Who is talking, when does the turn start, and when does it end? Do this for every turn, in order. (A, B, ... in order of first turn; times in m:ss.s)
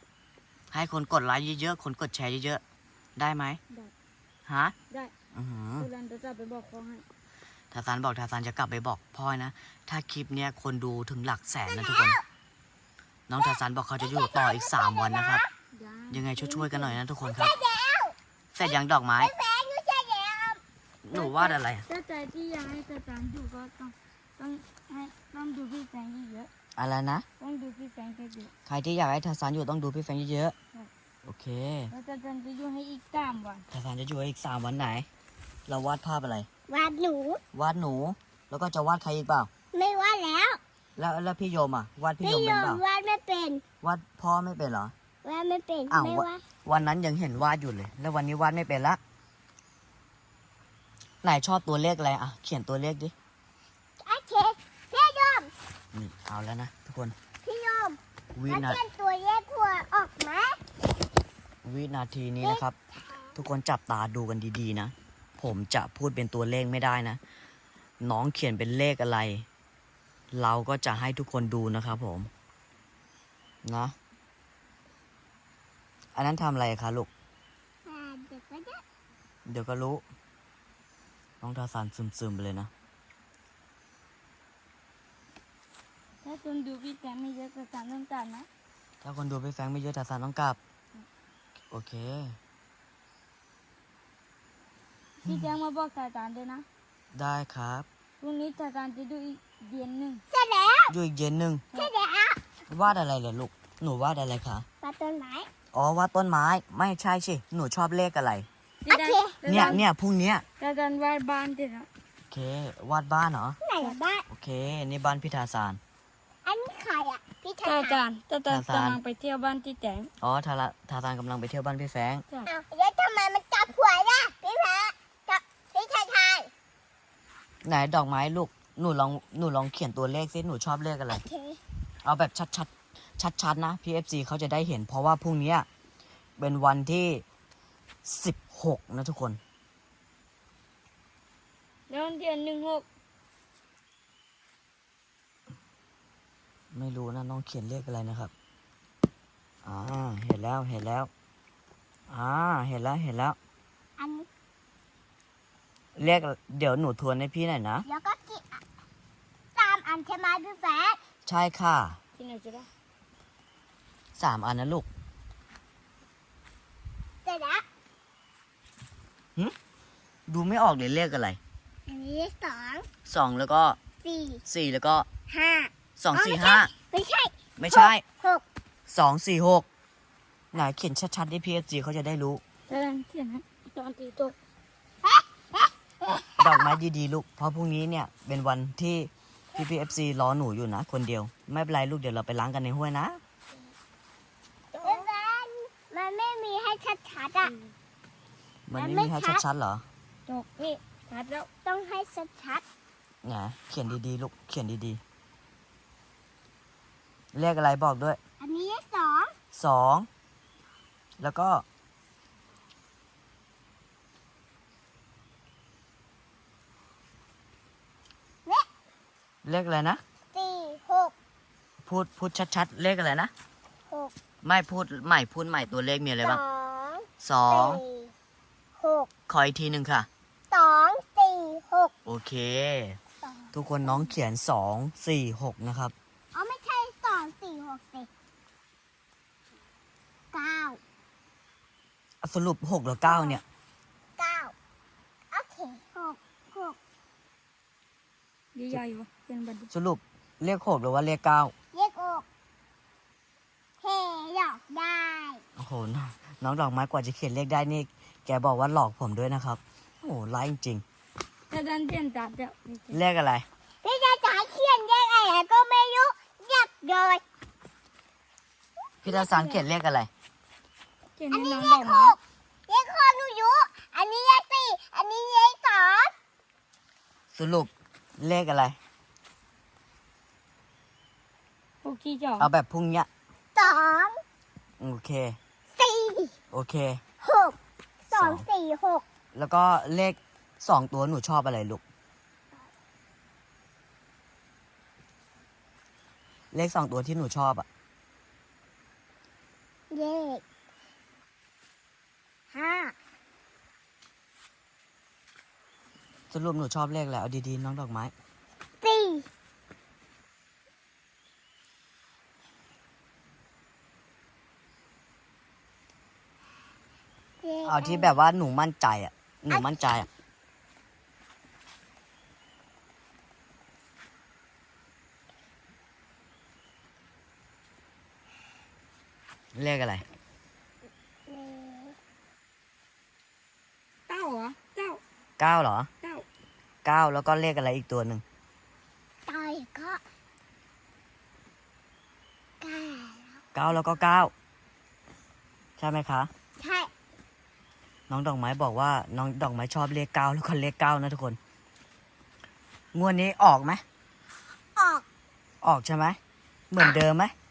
0:00.7-0:02.6 A
0:03.2-0:03.6 A
0:04.5-0:04.8 A
0:05.3-0:05.9 A
0:05.8-0:07.0 B
0:07.7-0:12.2 A
0:11.7-0:12.2 C
0:13.3-0:15.4 A
0:13.4-0:15.5 C
0:15.7-0:17.0 B
0:16.1-0:17.5 A
0:17.2-0:20.6 C
0:18.6-0:19.3 A
0:21.0-0:21.9 A
0:21.1-0:21.6 C
0:21.9-0:26.5 B
0:26.8-0:27.2 A
0:27.4-0:28.5 B
0:28.7-0:30.6 A
0:31.2-0:31.9 A
0:31.9-0:33.7 B
0:33.7-0:35.1 A
0:35.7-0:36.5 A
0:36.7-0:37.4 C
0:37.5-0:39.5 A
0:39.7-0:40.6 C
0:41.0-0:42.8 A
0:42.2-0:43.6 C
0:43.8-0:44.9 A
0:45.2-0:46.4 C
0:45.9-0:49.0 A
0:51.2-0:53.1 A
0:54.0-0:55.5 C
0:55.9-0:57.1 A
0:57.4-1:00.6 C
0:58.4-0:58.8 A
1:01.6-1:02.8 A
1:02.4-1:03.4 C
1:03.4-1:07.2 A
1:08.0-1:09.5 A
1:10.3-1:12.3 A
1:13.6-1:14.0 A
1:16.2-1:17.1 A
1:17.8-1:18.8 C
1:19.5-1:20.0 A
1:21.4-1:22.7 A
1:26.2-1:28.5 B
1:29.0-1:30.6 A
1:31.7-1:32.4 A
1:35.2-1:36.7 B
1:37.1-1:37.9 A
1:38.2-1:40.2 B
1:40.3-1:40.9 C
1:40.9-1:41.6 A
1:41.7-1:42.4 C
1:42.7-1:44.7 A
1:44.8-1:45.5 C
1:45.7-1:48.5 A
1:48.8-1:49.8 B
1:48.9-1:49.8 C
1:49.5-1:50.4 A
1:50.6-1:51.9 B
1:52.3-1:53.6 A
1:53.6-1:54.3 C
1:54.3-1:55.8 A
1:56.4-1:58.0 C
1:57.6-2:00.1 B
1:58.5-1:59.0 A
2:00.2-2:02.2 A
2:02.5-2:06.5 C
2:07.6-2:11.2 A
2:11.1-2:11.6 C
2:12.0-2:15.7 A
2:16.4-2:17.2 A
2:18.0-2:19.4 A
2:21.9-2:22.9 B
2:26.7-2:28.3 A
2:29.6-2:31.1 A
2:32.1-2:33.4 A
2:34.0-2:34.3 C
2:36.0-2:37.8 A
2:37.8-2:38.6 C
2:39.6-2:41.0 C
2:41.3-2:42.0 A
2:42.2-2:42.7 B
2:44.2-2:44.9 A
2:47.2-2:47.6 C
2:50.3-2:51.4 A
2:51.9-2:52.9 C
2:53.1-2:53.8 A
2:54.0-2:54.4 C
2:54.5-2:55.1 A
2:55.3-2:58.4 C
2:56.0-2:56.7 A
2:57.6-2:58.0 A
2:58.9-2:59.7 A
3:00.5-3:02.4 A
3:02.7-3:04.4 B
3:05.0-3:06.8 C
3:06.4-3:13.2 A
3:14.7-3:15.1 B
3:14.8-3:17.5 C
3:18.7-3:19.8 A
3:18.7-3:19.4 C
3:20.3-3:21.5 B
3:21.6-3:22.6 C
3:23.2-3:25.0 A
3:27.3-3:28.2 A
3:28.4-3:29.3 C
3:29.5-3:30.1 A
3:31.2-3:31.6 A
3:39.4-3:40.0 A
3:40.3-3:41.1 C
3:41.8-3:43.3 A
3:44.4-3:46.4 A
3:46.2-3:48.1 C
3:47.2-3:47.8 A
3:48.8-3:49.1 C
3:49.3-3:50.1 A
3:50.5-3:51.9 C
3:52.1-3:53.0 A
3:53.2-3:54.1 C
3:53.5-3:55.9 A
3:56.3-3:58.1 C
4:00.3-4:00.8 C
4:02.2-4:03.4 A
4:03.0-4:03.4 C
4:04.2-4:04.5 C
4:05.3-4:06.8 C
4:08.6-4:09.7 B
4:09.7-4:11.5 A
4:11.7-4:12.3 C
4:13.8-4:15.4 C
4:15.6-4:20.8 A
4:21.5-4:23.0 B
4:22.9-4:23.5 A
4:23.8-4:27.2 C
4:29.0-4:29.6 C
4:29.0-4:30.1 A
4:31.2-4:32.2 B
4:31.3-4:36.1 C
4:37.3-4:38.8 A
4:41.8-4:42.5 B
4:42.4-4:43.1 A
4:43.6-4:44.2 C
4:44.8-4:45.4 A
4:45.7-4:46.4 C
4:46.5-4:47.0 A
4:47.2-4:47.6 C
4:48.1-4:49.0 C
4:48.1-4:48.4 A
4:49.4-4:51.8 A
4:56.5-4:57.7 A
4:59.9-5:00.4 C
5:02.5-5:03.0 C
5:06.3-5:08.1 A
5:08.8-5:09.3 C
5:17.4-5:18.1 C
5:17.6-5:20.1 A
5:29.6-5:30.0 A
5:31.3-5:32.0 C
5:34.1-5:35.0 B
5:35.4-5:35.9 A
5:36.8-5:38.2 A
5:39.3-5:40.0 C
5:42.6-5:43.4 C
5:43.5-5:44.3 A
5:45.8-5:46.3 A
5:46.6-5:46.9 C
5:48.1-5:51.4 A
5:52.9-5:53.8 A
5:54.8-5:55.1 C
5:55.6-5:56.2 A
5:56.7-5:57.3 A